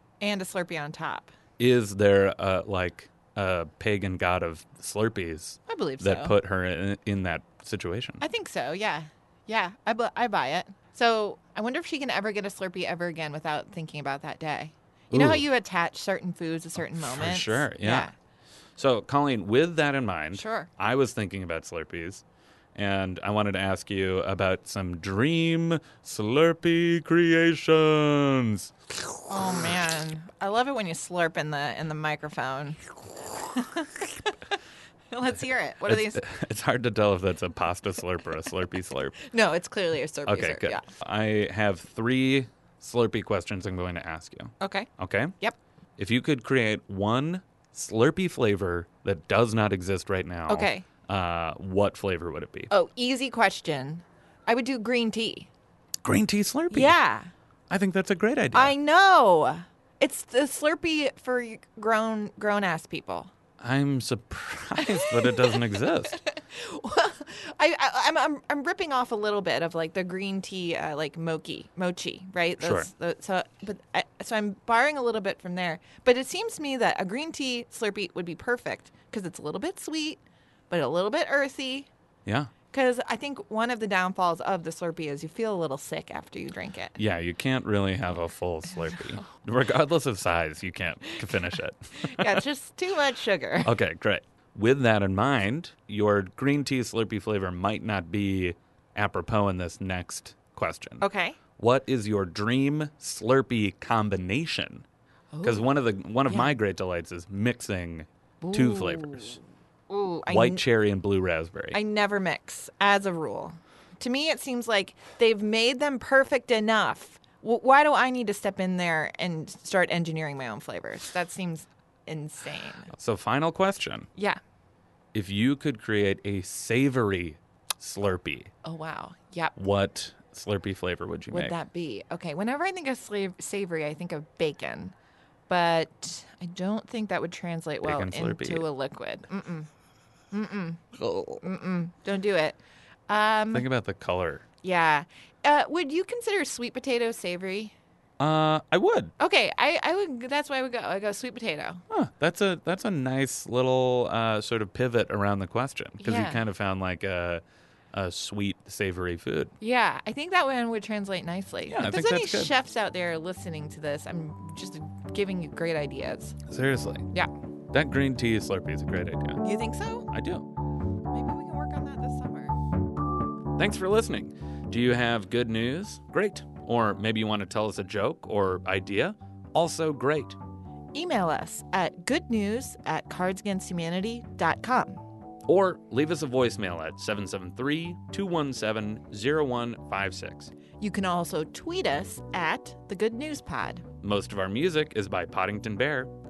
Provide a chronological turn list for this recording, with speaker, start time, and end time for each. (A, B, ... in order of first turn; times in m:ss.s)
0:00.2-0:01.3 A
0:01.6-0:08.2 B
0:05.7-0:06.3 A
0:08.2-0:18.1 A
0:15.1-0:15.4 B
0:16.9-0:18.1 B
0:18.8-0:22.2 B
0:20.3-0:20.7 A
0:22.7-0:28.7 B
0:29.3-0:34.5 A
0:35.1-0:36.2 A
0:35.8-0:39.2 B
0:39.2-0:40.9 A
0:40.2-0:45.3 B
0:44.6-0:44.9 A
0:46.0-0:52.7 B
0:50.5-0:50.8 A
0:52.7-0:55.5 A
0:56.0-0:57.0 B
0:56.7-0:57.3 A
0:57.7-0:58.7 B
0:58.5-1:03.3 A
1:03.6-1:06.2 B
1:04.8-1:21.9 A
1:12.6-1:12.9 B
1:22.2-1:22.5 B
1:22.7-1:27.0 A
1:27.0-1:32.4 B
1:32.0-1:33.7 A
1:33.6-1:41.0 B
1:41.0-1:41.4 A
1:41.6-1:44.8 B
1:45.3-1:45.7 A
1:45.4-1:49.4 B
1:46.3-1:46.6 A
1:48.4-1:50.6 A
1:50.3-1:51.8 B
1:51.7-2:02.9 A
2:02.9-2:04.1 B
2:04.1-2:04.4 A
2:05.1-2:08.5 B
2:08.6-2:09.5 A
2:09.6-2:11.6 B
2:11.3-2:14.9 A
2:15.5-2:19.7 A
2:17.8-2:18.6 B
2:20.3-2:20.8 A
2:21.0-2:21.4 B
2:21.4-2:23.7 A
2:23.5-2:24.4 B
2:24.6-2:27.7 A
2:28.2-2:29.1 B
2:29.2-2:31.8 A
2:31.9-2:37.4 B
2:36.0-2:36.4 A
2:37.9-2:39.5 B
2:39.6-2:46.4 A
2:41.7-2:42.5 B
2:46.5-2:47.1 B
2:47.7-2:49.4 B
2:49.4-2:50.1 A
2:50.1-2:50.5 B
2:51.1-2:52.6 A
2:53.6-3:00.4 B
3:00.9-3:05.0 A
3:05.4-3:10.5 B
3:10.8-3:13.8 A
3:14.0-3:16.1 B